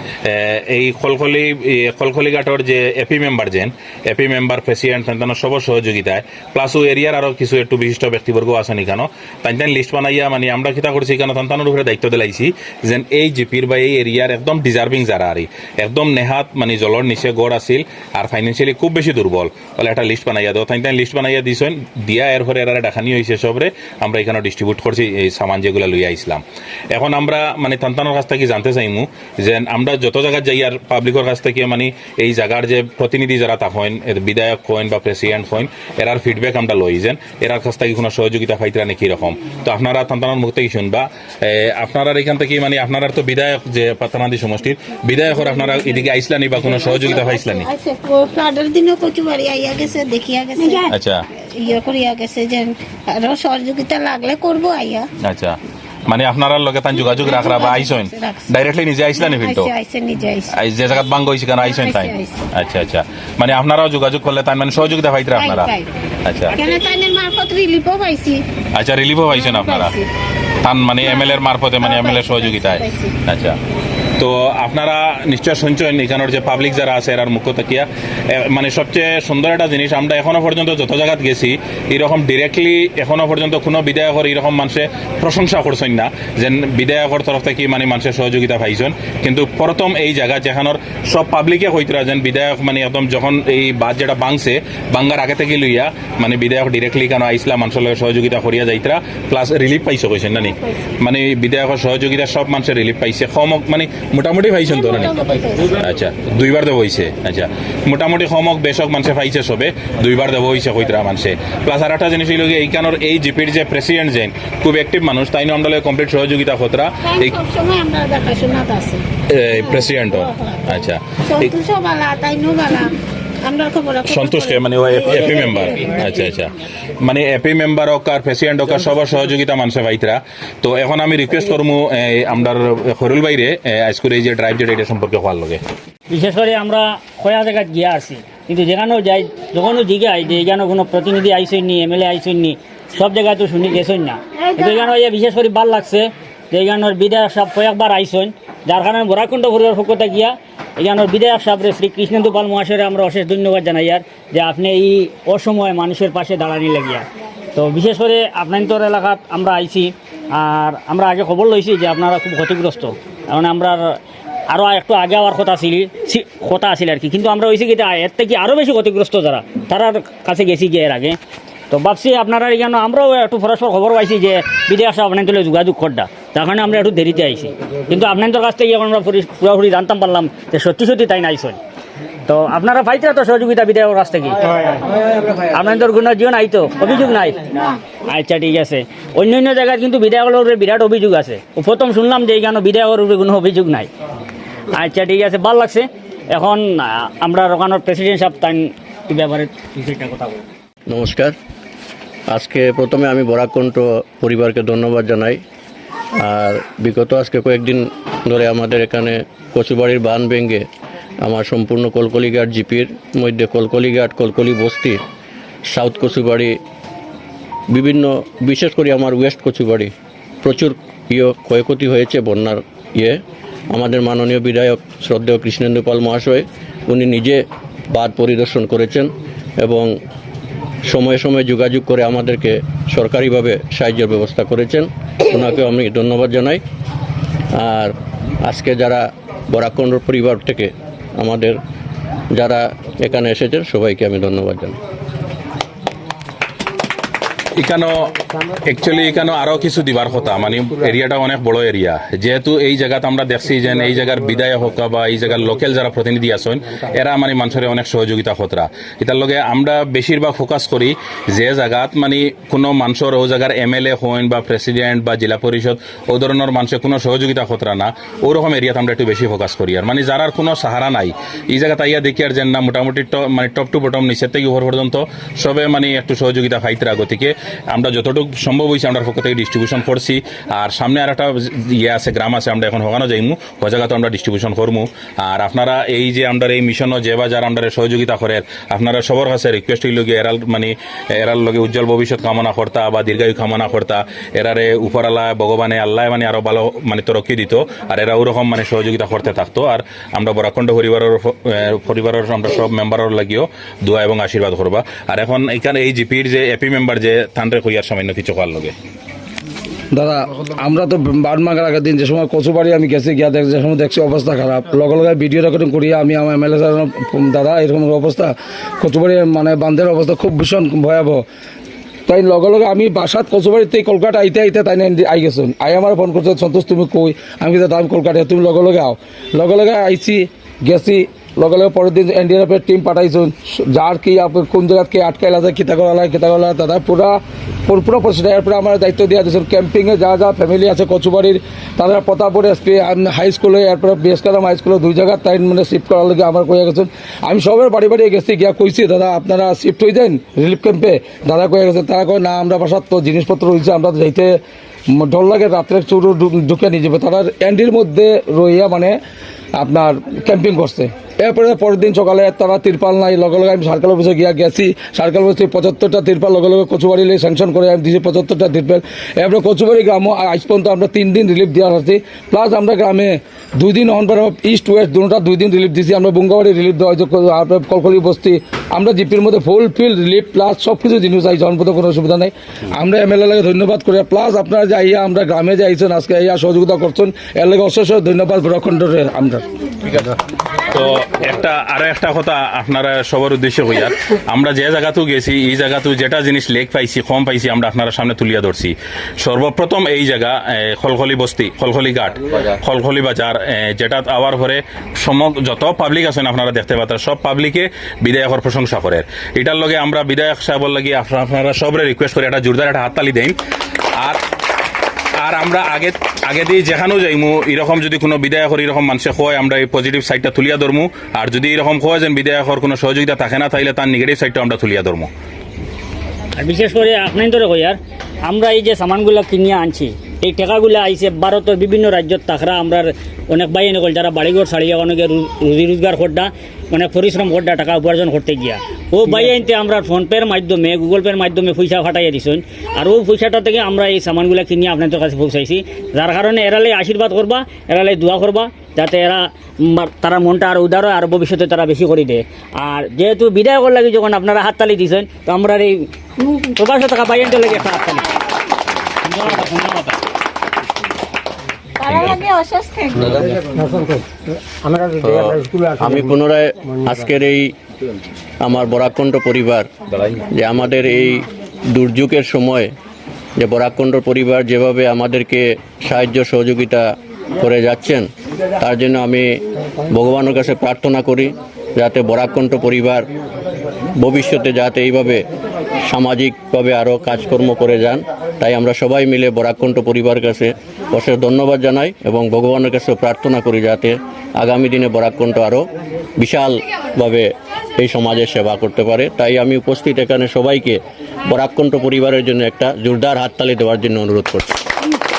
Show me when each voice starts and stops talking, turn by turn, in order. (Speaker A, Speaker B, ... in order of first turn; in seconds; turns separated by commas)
Speaker A: 0.2-47.7, Speaker B: 46.7-55.1, Speaker A: 50.9-51.2, Speaker A: 55.2-59.7, Speaker B: 57.1-58.5, Speaker B: 59.2-60.5, Speaker A: 60.5-65.7, Speaker B: 61.6-62.5, Speaker B: 65.4-65.9, Speaker A: 66.2-66.6, Speaker B: 66.5-68.5, Speaker A: 68.8-70.0, Speaker B: 69.3-70.1, Speaker A: 70.6-73.6, Speaker B: 71.1-73.2, Speaker A: 74.2-117.4, Speaker B: 104.7-105.7, Speaker B: 117.1-119.0, Speaker A: 119.3-121.6, Speaker B: 119.6-120.7, Speaker B: 121.2-126.0, Speaker A: 124.1-135.6, Speaker C: 136.1-164.0, Speaker B: 144.5-144.8, Speaker C: 164.5-171.2, Speaker C: 171.7-181.6, Speaker C: 182.3-193.9, Speaker C: 194.7-200.4, Speaker D: 200.9-201.4, Speaker D: 202.3-205.4, Speaker D: 206.2-210.7, Speaker D: 211.2-215.0, Speaker D: 215.7-216.6, Speaker D: 217.7-223.2, Speaker D: 223.7-229.9, Speaker D: 230.9-236.6, Speaker D: 237.5-241.6, Speaker D: 242.3-244.8, Speaker A: 247.6-308.8, Speaker E: 309.9-321.2, Speaker E: 322.1-354.4, Speaker E: 354.9-359.0, Speaker E: 359.6-389.4, Speaker A: 390.6-413.4, Speaker A: 414.0-414.2, Speaker A: 415.2-425.1, Speaker C: 426.4-458.2, Speaker C: 459.0-460.0, Speaker B: 461.8-463.2, Speaker A: 461.9-462.2, Speaker D: 464.7-467.5, Speaker D: 468.4-469.7, Speaker D: 470.3-472.7, Speaker D: 473.4-476.8, Speaker D: 477.4-478.1, Speaker D: 478.6-483.1, Speaker D: 483.9-485.2, Speaker D: 485.9-500.8, Speaker D: 501.3-504.7